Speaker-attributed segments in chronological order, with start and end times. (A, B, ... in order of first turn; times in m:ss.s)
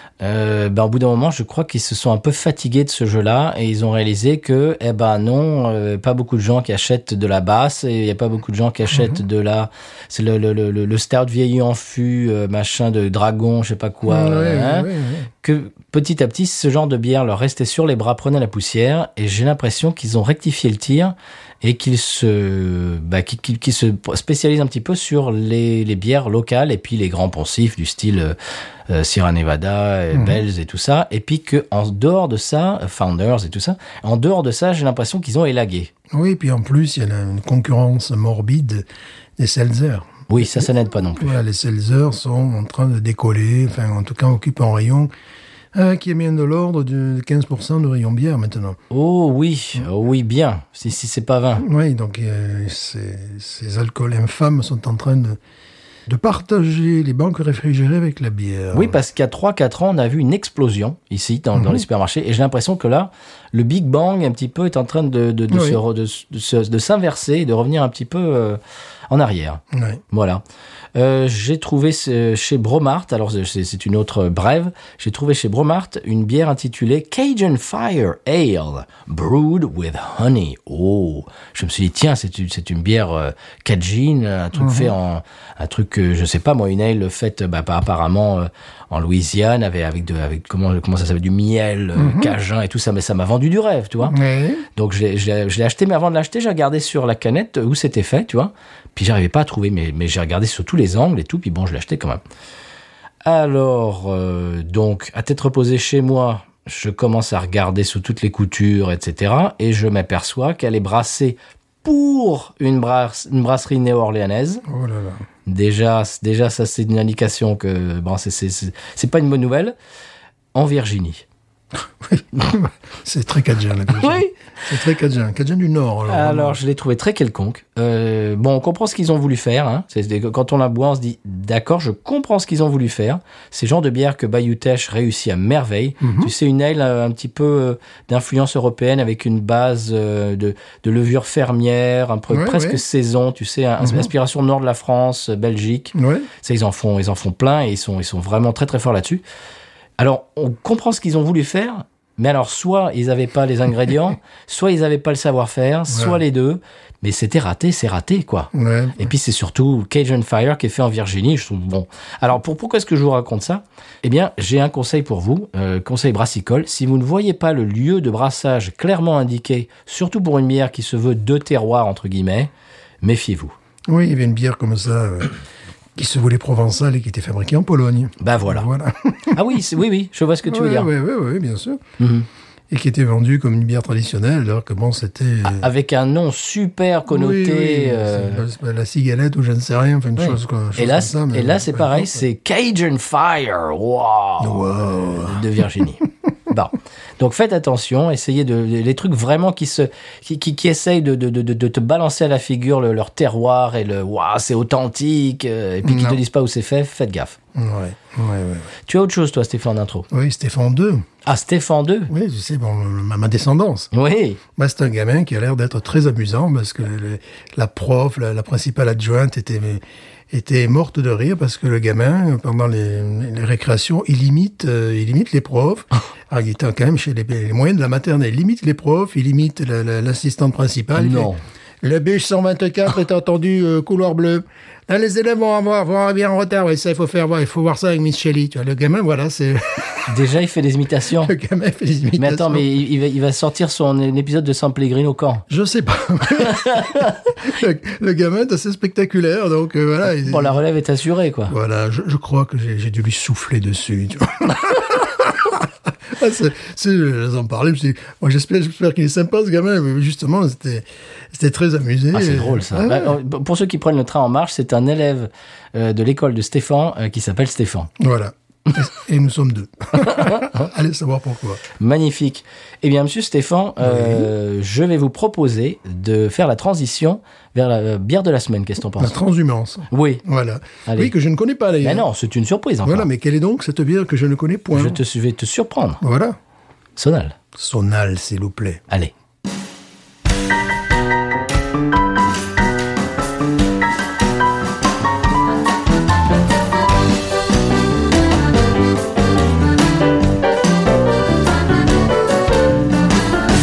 0:00.2-0:14.9 A
0:08.9-0:09.2 B
0:14.1-0:15.3 B
0:15.4-0:28.4 A
0:28.9-0:35.9 A
0:30.1-0:30.4 B
0:36.1-0:38.9 B
0:39.4-0:45.1 B
0:40.3-0:41.4 A
0:45.7-0:48.8 B
0:48.9-0:51.7 A
0:51.6-0:55.4 B
0:56.1-0:59.0 B
0:58.7-1:08.6 A
1:01.6-1:01.8 B
1:05.5-1:05.8 B
1:09.1-1:10.4 A
1:09.7-1:10.0 B
1:11.0-1:34.2 A
1:24.6-1:24.9 B
1:32.0-1:32.4 B
1:34.0-1:34.7 B
1:34.8-1:42.2 A
1:43.2-1:54.6 A
1:54.6-1:55.2 B
1:55.5-1:59.8 A
2:00.5-2:01.2 A
2:02.0-2:06.6 B
2:04.0-2:04.3 A
2:06.1-2:29.2 A
2:16.0-2:16.3 B
2:22.3-2:22.8 B
2:23.8-2:24.1 B
2:26.0-2:26.3 B
2:30.0-2:52.5 A
2:35.9-2:36.2 B
2:38.5-2:39.1 B
2:53.0-2:53.6 A
2:53.9-2:55.4 B
2:56.0-2:59.6 B
2:58.2-2:58.7 A
2:59.3-3:00.9 A
3:00.5-3:01.8 B
3:02.0-3:02.3 A
3:02.7-3:05.7 B
3:05.5-3:08.4 A
3:07.1-3:12.3 B
3:10.2-3:27.4 A
3:14.4-3:15.5 B
3:25.8-3:26.2 B
3:27.6-3:28.7 B
3:28.9-3:30.1 A
3:30.1-3:31.0 B
3:31.2-3:32.1 A
3:32.1-3:33.9 B
3:33.9-3:34.4 A
3:34.6-3:51.3 B
3:50.9-3:51.4 A
3:51.8-4:00.1 B
4:00.1-4:01.3 A
4:01.2-4:02.7 B
4:02.2-4:05.5 A
4:05.5-4:10.6 B
4:06.4-4:07.2 A
4:10.2-4:11.5 A
4:11.5-4:23.2 B
4:22.1-4:27.9 A
4:28.0-4:31.6 B
4:30.0-4:30.7 A
4:31.7-4:39.2 A
4:33.8-4:34.3 B
4:39.0-4:42.1 B
4:39.9-4:40.2 A
4:40.9-4:41.1 A
4:41.8-4:43.1 A
4:42.8-4:45.0 B
4:44.7-4:46.0 A
4:46.0-4:46.4 B
4:47.0-4:47.4 A
4:47.6-4:48.8 B